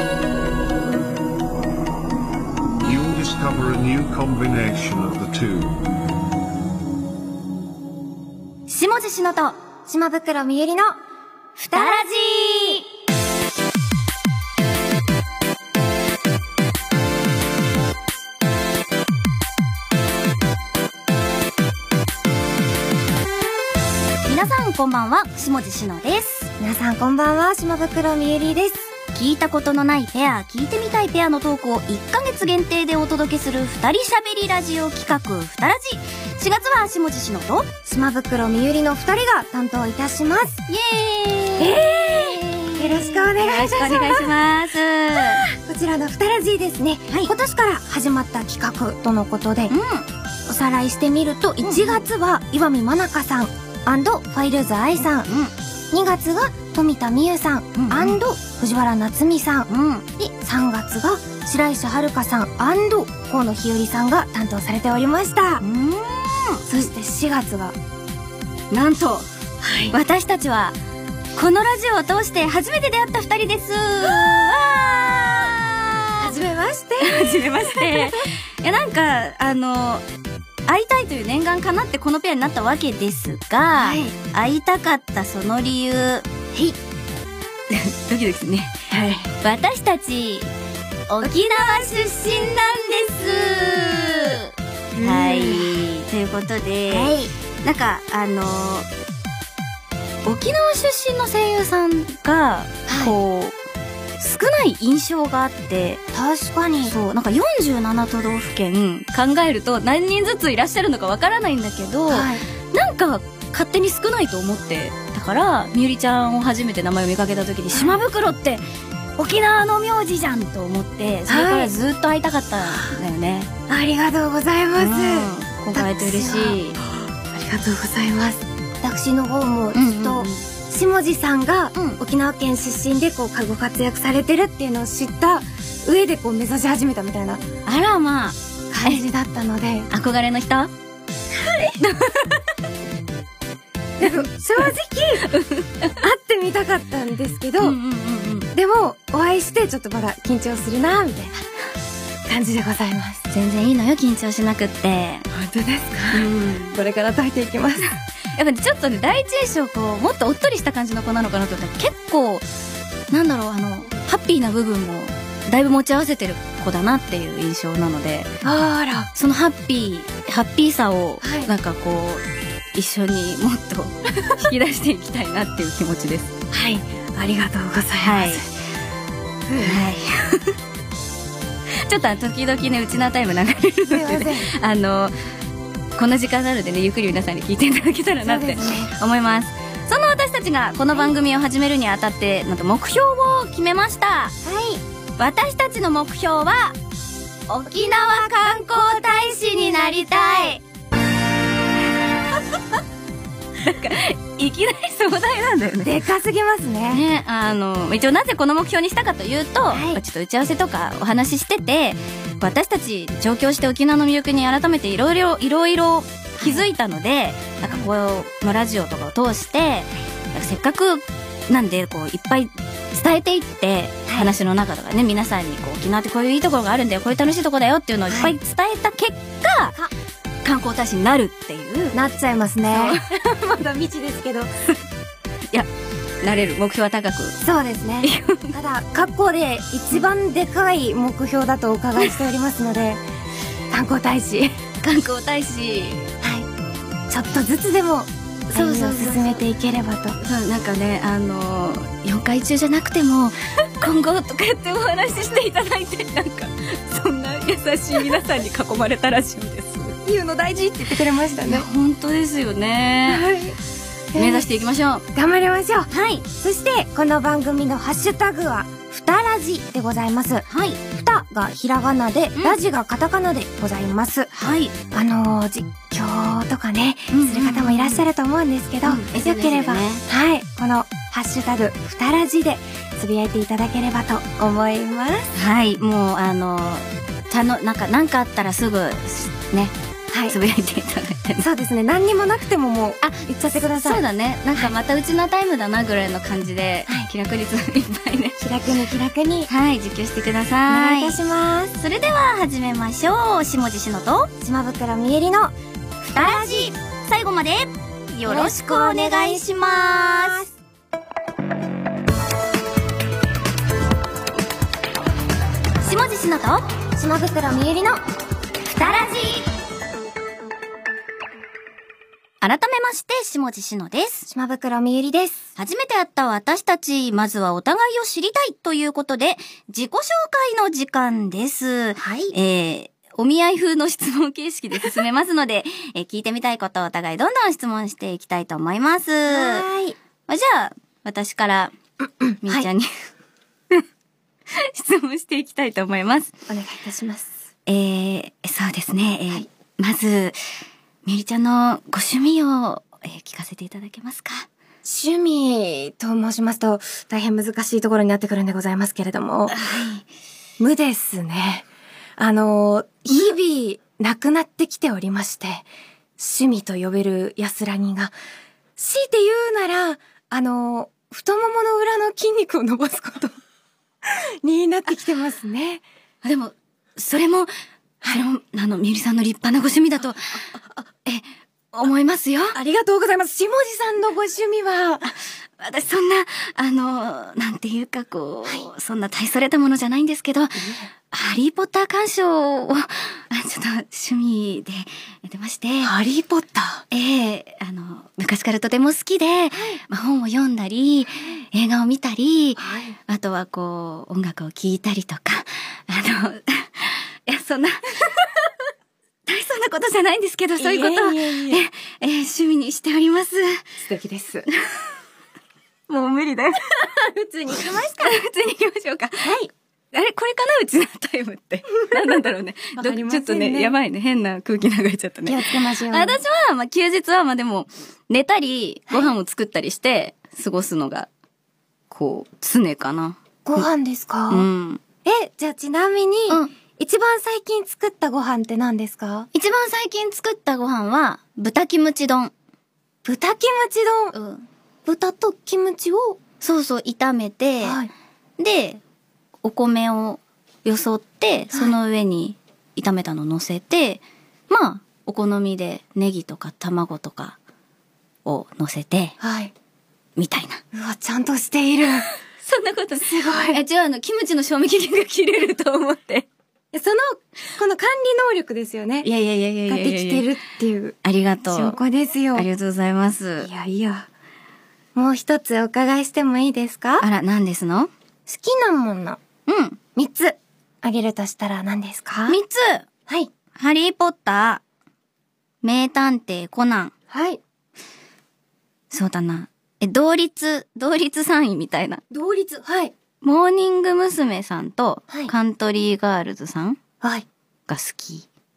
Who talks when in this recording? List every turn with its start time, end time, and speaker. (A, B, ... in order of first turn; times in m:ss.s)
0:02.8-0:05.8 A
0:08.7-0:09.6 B
0:09.8-0:11.0 C
0:11.6-0:12.8 B
0:11.6-0:12.8 C
0:24.2-0:26.5 B
0:26.6-0:28.9 C
0:29.1-0:37.7 B
0:37.8-0:40.6 C
0:40.7-0:45.4 B
0:41.6-0:44.3 C
0:45.1-0:49.7 C
0:49.7-0:50.1 B
0:50.4-0:55.3 C
0:51.6-0:52.0 B
0:55.3-0:55.5 B
0:55.9-1:05.6 C
0:57.7-0:58.2 B
0:59.7-1:00.0 B
1:05.6-1:06.9 B
1:06.7-1:07.8 C
1:08.7-1:09.3 B
1:09.6-1:10.0 C
1:09.9-1:10.8 B
1:11.3-1:16.3 B
1:16.2-1:18.2 C
1:17.0-1:20.0 B
1:20.7-1:26.3 B
1:23.8-1:24.1 C
1:27.7-1:28.8 B
1:28.9-1:29.3 C
1:29.4-1:30.5 B
1:31.1-1:34.5 B
1:31.2-1:31.8 C
1:34.9-1:35.7 C
1:35.0-1:38.9 B
1:36.9-1:37.3 C
1:40.2-1:43.5 B
1:42.8-1:43.1 C
1:44.2-1:46.0 B
1:46.1-1:46.9 C
1:46.9-1:58.6 B
1:52.1-1:52.4 C
1:57.7-1:58.0 C
1:59.2-2:03.5 B
2:01.3-2:01.7 C
2:03.7-2:06.6 C
2:04.8-2:06.8 B
2:07.3-2:17.4 C
2:09.7-2:10.4 B
2:17.6-2:19.0 B
2:18.7-2:19.9 C
2:19.9-2:20.7 B
2:21.3-2:21.7 C
2:21.8-2:22.4 B
2:24.0-2:25.3 C
2:24.6-2:26.0 B
2:26.0-2:27.8 C
2:27.6-2:28.5 B
2:28.5-2:31.4 C
2:32.2-2:33.2 C
2:33.3-2:35.2 B
2:35.3-2:37.8 C
2:36.1-2:36.8 B
2:38.3-2:42.4 B
2:43.1-2:48.3 B
2:48.4-2:49.1 C
2:49.1-2:56.4 B
2:51.2-2:51.5 C
2:56.5-2:58.5 C
2:58.0-2:58.4 B
2:59.5-2:59.8 C
2:59.6-3:00.6 B
3:01.8-3:05.2 B
3:03.9-3:04.5 C
3:06.0-3:14.4 B
3:08.2-3:08.9 C
3:14.4-3:14.8 C
3:15.2-3:16.8 B
3:17.5-3:20.6 B
3:17.7-3:20.6 C
3:23.6-3:25.9 B
3:25.8-3:27.0 C
3:26.9-3:49.8 B
3:29.7-3:30.0 C
3:44.1-3:44.3 C
3:48.1-3:48.3 C
3:50.4-3:52.0 B
3:51.9-3:54.5 C
3:52.7-3:53.0 B
3:56.2-3:57.4 B
3:57.4-4:03.0 C
3:58.0-3:58.5 B
4:03.7-4:04.6 C
4:04.8-4:06.1 B
4:06.2-4:06.5 C
4:07.1-4:10.2 C
4:08.5-4:09.4 B
4:10.2-4:20.0 B
4:20.0-4:21.7 C
4:21.4-4:23.2 B
4:23.1-4:23.6 C
4:24.1-4:24.5 C
4:24.1-4:25.0 B
4:25.1-4:34.3 C
4:25.9-4:26.2 B
4:30.5-4:30.8 B
4:34.3-4:34.8 B
4:34.9-4:45.3 C
4:37.1-4:38.0 B
4:38.8-4:40.0 B
4:45.3-4:49.7 B
4:50.1-4:50.4 C
4:50.3-4:51.4 B
4:51.4-4:54.0 C
4:53.0-4:58.4 B
4:58.4-4:59.5 C
4:59.5-5:01.2 B
5:00.7-5:01.8 C
5:01.8-5:04.3 B
5:04.4-5:05.5 C
5:06.0-5:10.4 B
5:06.1-5:06.7 C
5:08.2-5:10.5 C
5:15.8-5:16.6 B
5:16.9-5:18.0 C
5:18.7-5:19.5 B
5:22.4-5:24.3 B
5:24.3-5:25.4 C
5:25.6-5:39.7 B
5:32.0-5:32.3 C
5:39.3-5:40.0 C
5:40.3-5:41.7 B
5:42.2-5:42.7 C
5:42.4-5:42.9 B
5:44.5-5:46.4 B
5:46.5-5:47.3 C
5:47.7-5:50.4 B
5:51.0-5:54.5 B
5:54.8-5:59.6 C
5:59.5-6:00.0 B
6:00.6-6:01.6 C
6:02.2-6:05.7 C
6:06.2-6:08.1 C
6:08.8-6:13.4 C
6:14.0-6:15.8 C
6:16.2-6:17.5 B
6:18.1-6:20.3 B
6:21.0-6:22.6 B
6:22.5-6:25.1 C
6:25.6-6:35.9 B
6:30.6-6:30.9 C
6:35.8-6:36.8 C
6:36.9-6:48.0 B
6:39.5-6:39.8 C
6:42.6-6:43.0 C
6:49.2-6:53.6 B
6:50.6-6:51.6 C
6:53.8-6:54.4 C
6:55.9-6:56.5 B
6:56.8-6:58.2 C
6:58.0-6:59.3 B
6:59.2-6:59.5 C
6:59.9-7:11.1 B
7:02.8-7:03.7 C
7:05.2-7:06.2 C
7:11.9-7:13.7 B
7:13.4-7:14.5 C
7:14.3-7:14.8 B
7:15.0-7:19.3 C
7:19.3-7:22.3 B
7:23.0-7:24.1 C
7:24.1-7:24.4 B
7:24.8-7:26.2 C
7:26.4-7:27.8 B
7:27.6-7:27.9 C
7:28.4-7:28.8 B
7:29.4-7:37.4 B
7:38.2-7:39.2 B
7:39.2-7:39.5 C
7:40.2-7:40.6 B
7:40.7-7:42.0 C
7:42.4-7:46.3 B
7:43.0-7:43.6 C
7:46.7-7:49.1 C
7:49.0-7:50.2 B
7:49.7-7:51.0 C
7:51.0-7:51.8 B
7:51.5-7:52.5 C
7:52.3-7:53.5 B
7:53.4-7:54.1 C
7:54.9-7:57.0 C
7:57.0-7:57.9 B
7:58.2-7:59.2 C
7:59.5-7:59.8 B
7:59.9-8:02.4 C
8:02.3-8:02.8 B
8:03.5-8:04.6 B
8:05.6-8:06.9 B
8:07.1-8:07.4 C
8:08.9-8:12.0 B
8:12.1-8:12.9 C
8:13.2-8:16.8 B
8:17.0-8:17.2 C
8:17.7-8:18.2 B